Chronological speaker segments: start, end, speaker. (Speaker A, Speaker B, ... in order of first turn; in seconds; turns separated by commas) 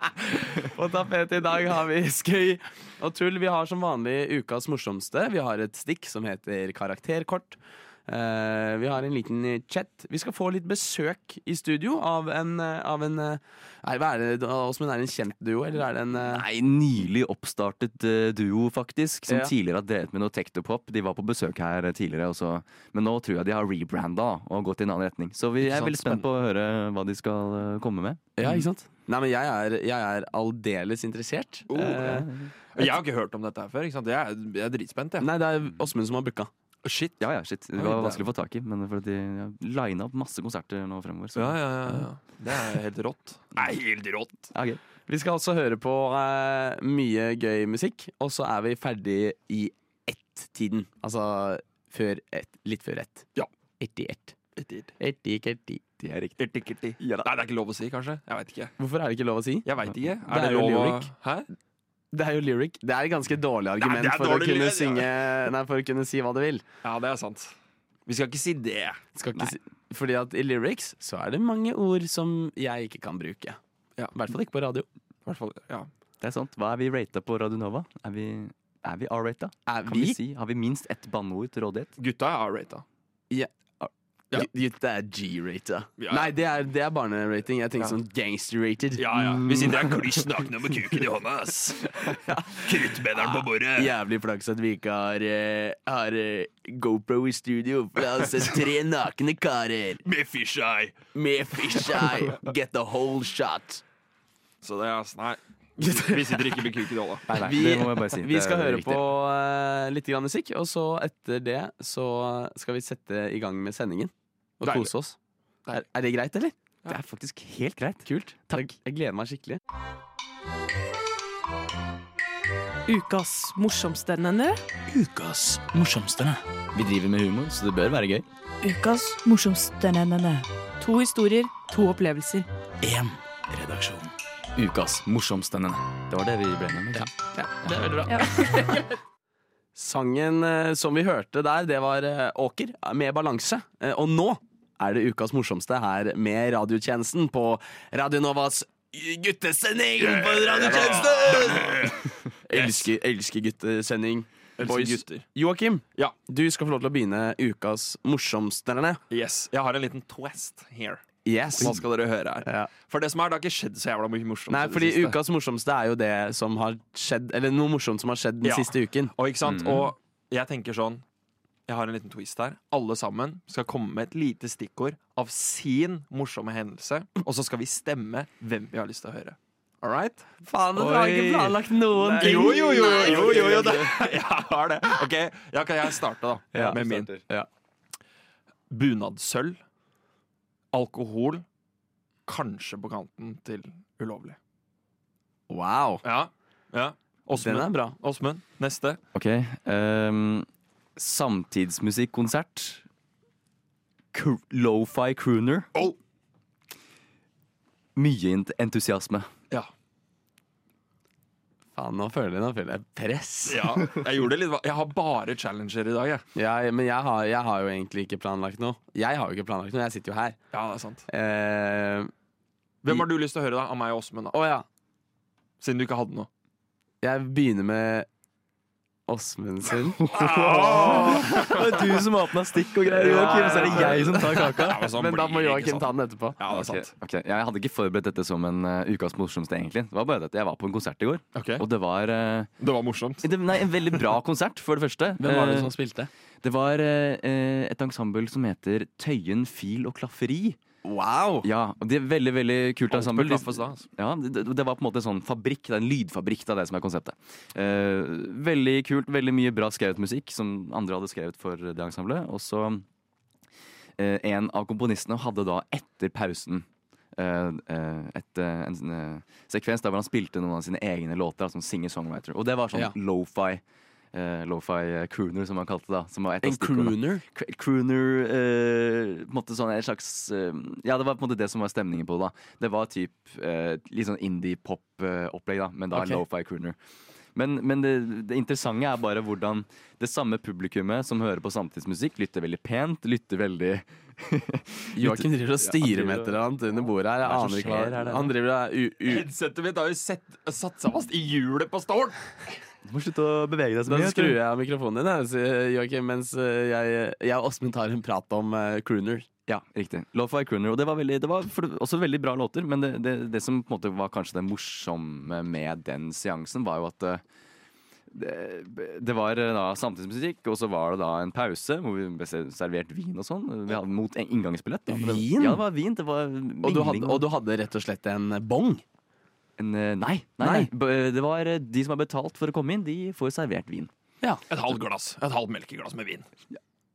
Speaker A: 0.6-16.4, Speaker B: 16.2-28.6, Speaker C: 25.6-26.3, Speaker A: 28.4-32.9, Speaker C: 31.7-35.3, Speaker B: 31.8-32.5, Speaker A: 35.2-36.5, Speaker C: 36.8-38.2, Speaker B: 37.2-42.1, Speaker C: 41.4-44.5, Speaker B: 44.5-44.8, Speaker A: 45.1-53.3, Speaker A: 53.8-54.3, Speaker C: 54.6-54.9, Speaker A: 55.0-56.0, Speaker B: 56.0-56.3, Speaker C: 56.4-58.8, Speaker B: 57.0-57.3, Speaker A: 58.8-59.7, Speaker C: 59.6-61.5, Speaker A: 60.3-61.1, Speaker A: 62.1-66.6, Speaker C: 63.8-65.1, Speaker C: 66.8-67.5, Speaker C: 68.1-69.0, Speaker A: 69.2-73.6, Speaker A: 74.1-74.8, Speaker C: 75.3-75.9, Speaker B: 76.2-81.9, Speaker A: 79.7-80.2, Speaker C: 82.0-82.8, Speaker A: 84.3-89.2, Speaker C: 86.0-86.3, Speaker C: 89.0-92.0, Speaker B: 89.2-89.9, Speaker A: 92.1-100.0, Speaker C: 92.5-93.9, Speaker C: 100.0-101.0, Speaker A: 101.2-103.8, Speaker C: 104.6-107.5, Speaker A: 105.8-106.7, Speaker B: 107.3-109.1, Speaker A: 107.3-115.2, Speaker C: 114.6-114.9, Speaker A: 115.7-116.5, Speaker B: 116.8-118.7, Speaker A: 118.1-119.6, Speaker D: 122.9-124.6, Speaker E: 124.9-126.4, Speaker B: 126.7-128.2, Speaker D: 128.6-132.5, Speaker E: 132.8-134.1, Speaker B: 134.6-137.1, Speaker A: 137.3-138.7, Speaker D: 138.1-138.8, Speaker A: 139.8-151.8, Speaker C: 150.0-152.9, Speaker E: 150.5-151.7, Speaker A: 152.5-159.0, Speaker C: 154.6-155.2, Speaker C: 159.1-161.0, Speaker A: 161.2-161.8, Speaker C: 161.6-165.2, Speaker A: 162.4-162.7, Speaker A: 164.5-169.1, Speaker C: 168.4-171.0, Speaker B: 169.4-169.9, Speaker C: 171.7-180.3, Speaker A: 180.4-183.9, Speaker B: 180.8-183.8, Speaker C: 180.9-181.5, Speaker C: 182.1-187.1, Speaker A: 186.5-187.5, Speaker B: 186.6-187.2, Speaker C: 188.7-189.6, Speaker C: 190.7-191.4, Speaker C: 192.3-194.4, Speaker A: 195.5-196.0, Speaker C: 196.0-199.0, Speaker A: 197.3-198.0, Speaker B: 199.2-202.8, Speaker B: 204.1-205.7, Speaker B: 208.0-209.3, Speaker A: 211.8-213.7, Speaker C: 213.5-216.2, Speaker A: 216.3-220.4, Speaker C: 220.5-221.1, Speaker A: 221.1-222.1, Speaker C: 222.8-224.3, Speaker A: 224.3-224.7, Speaker C: 225.6-226.3, Speaker A: 227.0-228.1, Speaker A: 229.1-231.3, Speaker B: 230.0-234.9, Speaker C: 230.1-232.0, Speaker A: 232.8-236.4, Speaker C: 233.0-236.9, Speaker B: 236.5-242.5, Speaker C: 241.3-241.7, Speaker C: 242.6-243.3, Speaker B: 243.2-245.7, Speaker A: 245.2-246.1, Speaker B: 246.4-250.6, Speaker A: 250.8-251.5, Speaker B: 251.4-262.9, Speaker C: 252.9-253.9, Speaker B: 264.0-273.6, Speaker B: 274.1-286.8, Speaker A: 276.4-277.2, Speaker A: 285.9-286.2, Speaker B: 287.4-296.6, Speaker A: 294.9-299.3, Speaker B: 297.2-298.3, Speaker C: 299.1-302.3, Speaker B: 302.9-304.4, Speaker A: 303.9-309.3, Speaker B: 309.5-317.2, Speaker B: 318.1-327.3, Speaker A: 324.9-325.6, Speaker A: 326.6-328.8, Speaker B: 329.6-333.9, Speaker A: 330.4-330.7, Speaker C: 334.5-336.2